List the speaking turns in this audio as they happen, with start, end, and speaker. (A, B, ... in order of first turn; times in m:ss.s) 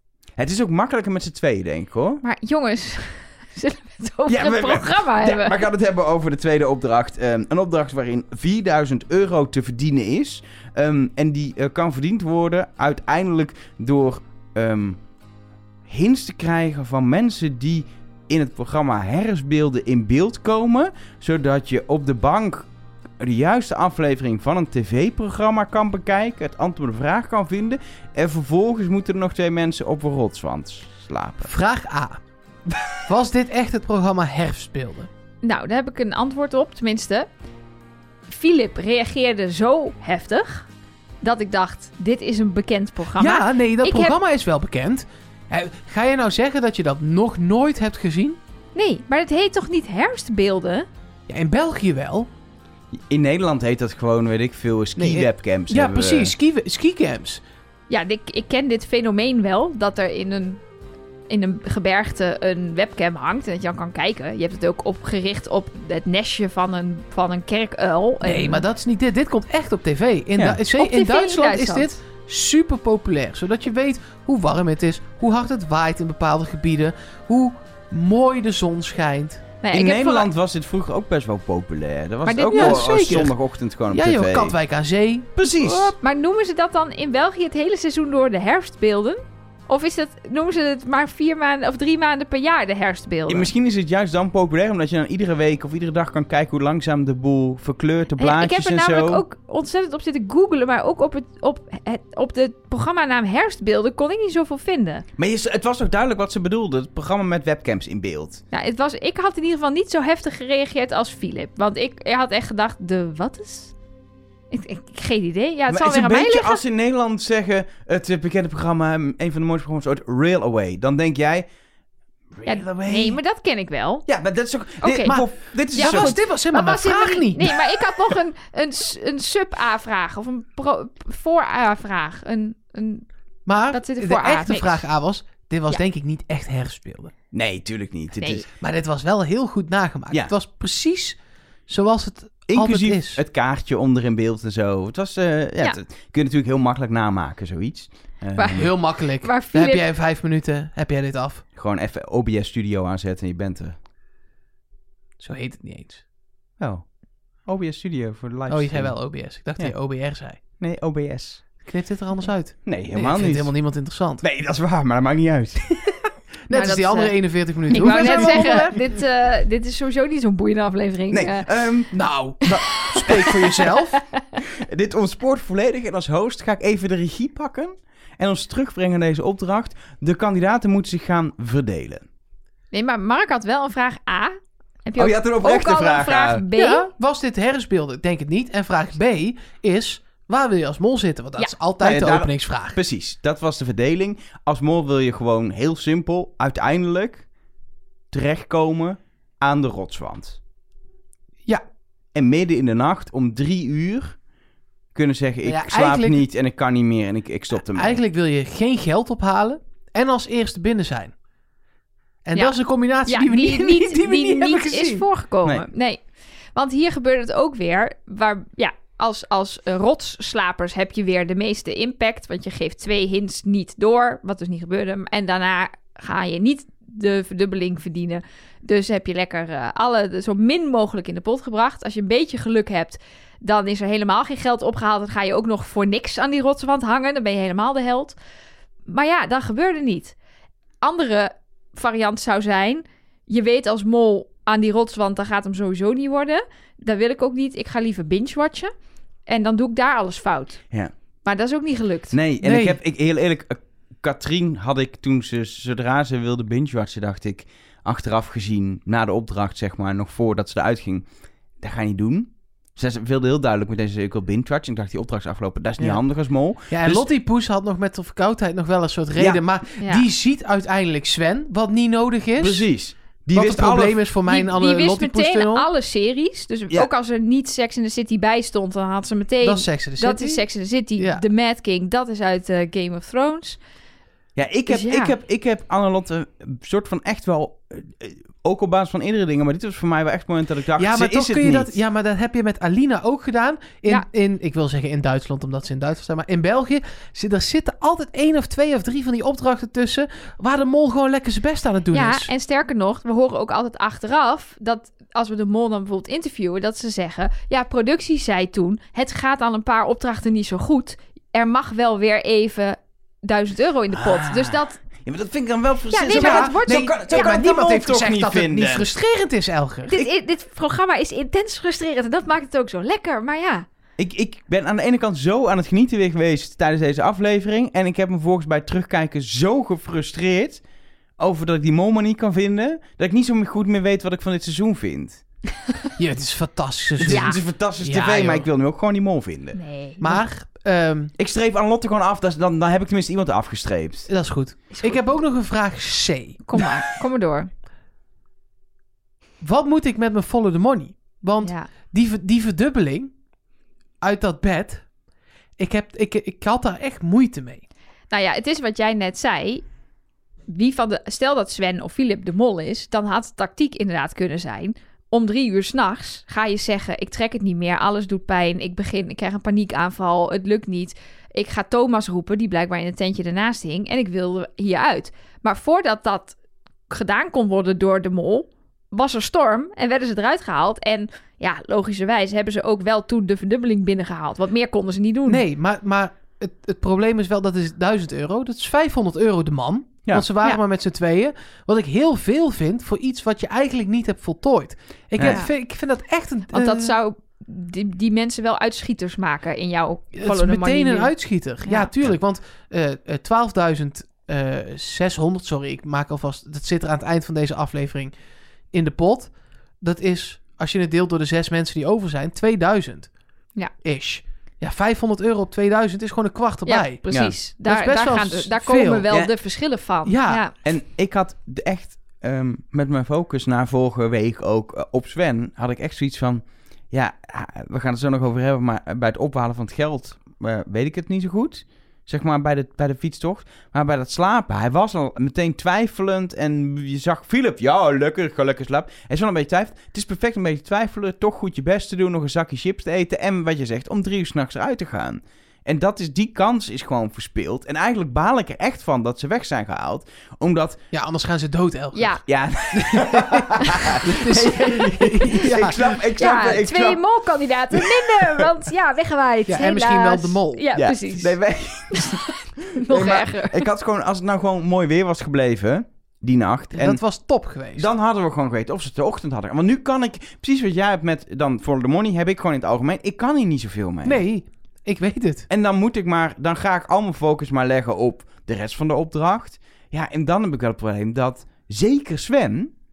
0:00.4-0:02.2 A
0:02.2-0:05.6 B
0:04.3-0:15.0 A
0:15.9-0:22.7 A
0:23.2-0:31.5 A
0:31.4-0:32.2 C
0:33.0-0:35.1 C
0:35.4-0:37.3 B
0:38.3-0:40.7 B
0:41.2-0:44.2 B
0:43.2-0:48.4 C
0:48.7-0:50.9 B
0:51.3-0:52.3 C
0:52.9-0:56.3 A
0:55.0-0:57.4 C
0:57.9-1:00.6 B
1:01.3-1:08.6 B
1:08.2-1:19.4 C
1:10.8-1:11.9 B
1:19.6-1:20.3 B
1:19.7-1:24.5 A
1:22.2-1:22.9 B
1:22.5-1:23.3 C
1:23.9-1:25.9 C
1:25.4-1:25.9 A
1:26.0-1:33.5 B
1:33.3-1:39.2 A
1:38.2-1:45.0 B
1:45.2-1:48.4 A
1:48.5-1:53.7 B
1:54.5-1:56.6 B
1:55.7-2:01.5 A
2:02.3-2:03.2 A
2:02.4-2:04.1 B
2:04.0-2:06.2 A
2:04.8-2:05.2 B
2:05.0-2:07.8 C
2:05.7-2:13.0 B
2:13.4-2:17.1 C
2:13.7-2:14.8 B
2:17.3-2:18.4 A
2:18.5-2:23.2 C
2:22.5-2:28.7 A
2:28.4-2:29.8 B
2:28.5-2:31.4 C
2:31.6-2:33.8 A
2:35.2-2:36.0 C
2:36.6-2:36.9 A
2:37.4-2:39.0 A
2:38.5-2:40.4 C
2:40.6-2:41.5 A
2:41.6-2:44.2 C
2:42.6-2:43.5 A
2:44.2-2:45.8 A
2:46.5-2:48.8 C
2:46.5-2:51.5 B
2:47.7-2:48.6 A
2:51.1-2:53.7 A
2:51.9-2:54.0 C
2:52.9-2:54.1 B
2:54.4-3:02.0 A
3:02.7-3:04.3 B
3:04.8-3:06.9 B
3:05.0-3:06.4 A
3:06.5-3:12.8 C
3:11.8-3:17.3 A
3:18.1-3:20.4 A
3:22.1-3:24.2 A
3:24.9-3:28.0 A
3:25.4-3:26.2 C
3:27.7-3:31.1 C
3:32.2-3:35.1 C
3:33.0-3:36.0 B
3:36.5-3:58.2 B
3:58.9-4:00.1 B
4:00.8-4:08.7 B
4:09.3-4:10.6 B
4:11.2-4:12.1 B
4:12.1-4:21.0 A
4:12.4-4:12.8 C
4:21.6-4:27.1 A
4:26.7-4:32.6 C
4:29.2-4:29.4 A
4:32.4-4:34.0 A
4:33.3-4:35.7 C
4:34.3-4:43.6 B
4:39.4-4:40.4 C
4:41.0-4:41.2 C
4:44.4-4:51.7 A
4:44.7-4:45.1 B
4:50.8-5:02.3 C
5:01.9-5:14.8 B
5:13.9-5:18.9 A
5:15.9-5:17.2 B
5:16.1-5:20.1 C
5:19.9-5:23.6 B
5:24.0-5:30.6 A
5:31.2-5:35.2 A
5:36.0-5:38.5 C
5:37.0-5:39.6 A
5:37.1-5:37.4 B
5:39.5-5:40.2 B
5:40.0-5:41.1 C
5:41.2-5:44.1 A
5:44.1-5:46.8 C
5:44.7-5:45.0 B
5:46.5-5:47.5 B
5:49.4-5:53.1 C
5:51.4-5:51.7 B
5:54.0-5:54.8 C
5:55.6-5:57.6 C
5:58.1-5:59.6 B
6:00.5-6:16.4 B
6:16.9-6:25.4 B
6:25.3-6:36.9 C
6:35.2-6:35.5 B
6:36.5-6:41.1 B
6:40.1-6:48.1 C
6:41.6-6:41.9 B
6:48.7-6:53.1 C
6:53.8-6:57.0 C
6:56.6-7:00.5 B
6:57.6-6:59.1 C
7:00.0-7:00.4 C
7:00.6-7:30.8 A
7:30.9-7:32.1 C
7:31.9-7:32.2 B
7:32.2-7:37.0 A
7:32.7-7:35.8 C
7:36.2-7:41.4 B
7:37.8-7:38.4 A
7:39.4-7:40.6 C
7:40.7-7:47.0 A
7:41.9-7:43.7 B
7:46.7-7:47.9 C
7:47.8-7:54.2 A
7:54.0-7:55.5 C
7:55.5-8:02.7 A